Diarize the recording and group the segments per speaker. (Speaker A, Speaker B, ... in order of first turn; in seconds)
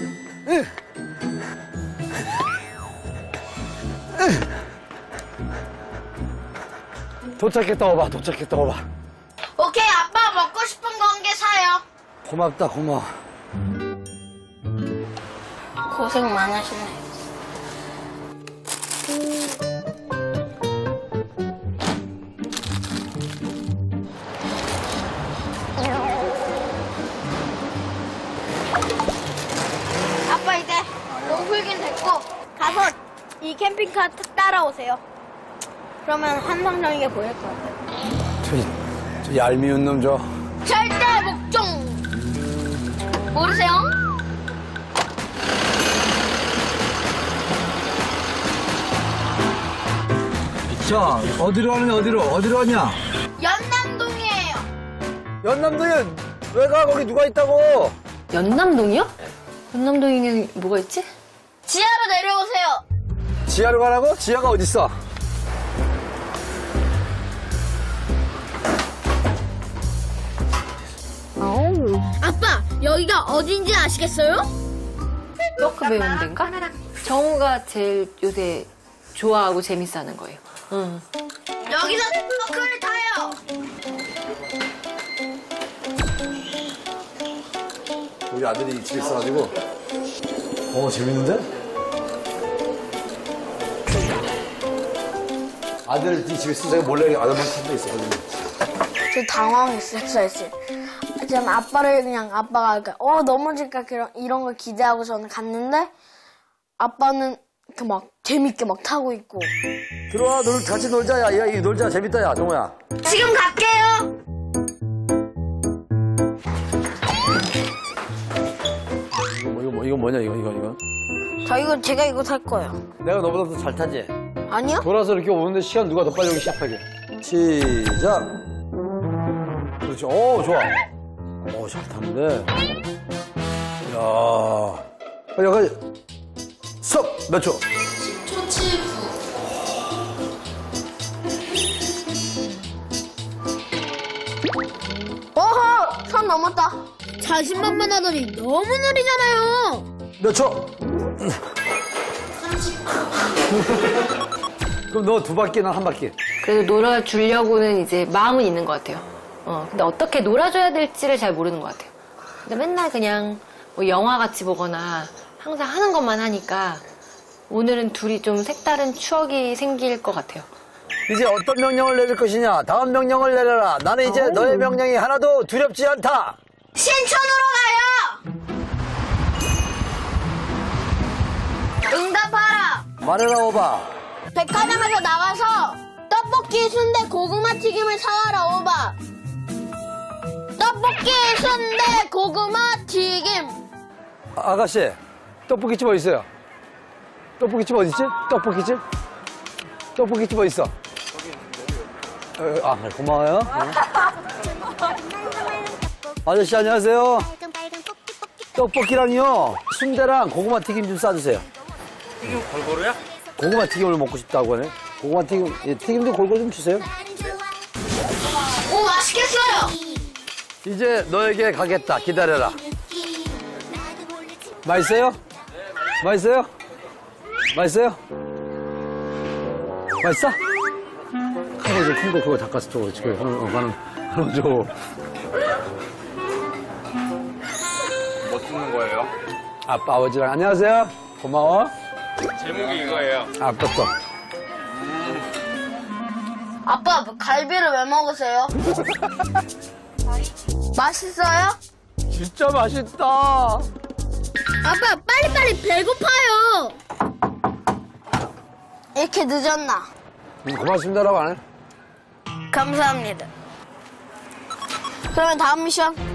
Speaker A: 7.4-8.9, 12.2-13.1, 38.4-40.3, 50.7-53.0, 55.4-58.0, 63.5-65.0, 88.3-89.5, 90.7-91.5, 95.9-98.2, 110.1-112.8, 119.1-120.8, 123.0-124.1, 124.8-128.3, 129.8-130.8, 131.4-132.5, 133.8-135.8, 136.8-137.6, 150.2-151.4, 154.9-156.1, 171.1-176.4, 183.0-183.9, 194.4-196.3, 197.4-198.8, 200.0-200.7, 202.4-203.8, 206.2-207.3, 208.6-211.5, 213.4-216.9, 220.6-222.6, 224.6-225.2, 226.0-226.5, 227.5-228.0, 230.0-230.4, 231.6-234.7, 239.7-241.7, 243.2-243.9, 252.1-253.7, 260.4-261.4
Speaker B: 9.6-11.8, 15.9-17.0, 30.3-35.0, 36.0-37.7, 40.6-42.0, 43.3-44.0, 53.4-54.7, 61.7-62.8, 72.2-74.5, 81.7-83.4, 99.1-100.5, 101.2-105.9, 106.8-109.5, 113.0-114.1, 121.5-122.8, 124.5-124.9, 145.4-146.8, 176.8-178.2, 181.9-182.8, 184.3-189.0, 190.6-193.6, 218.7-219.8, 246.7-248.5, 250.8-251.6, 254.6-256.5, 258.9-259.9, 262.5-263.3, 265.1-266.0
Speaker C: 58.3-59.1, 59.7-61.1, 75.6-81.1, 156.4-161.9, 162.4-166.8, 167.5-170.5
Speaker D: 147.2-149.8, 255.2-256.7
Speaker E: 212.4-212.9, 238.3-239.1, 242.5-243.3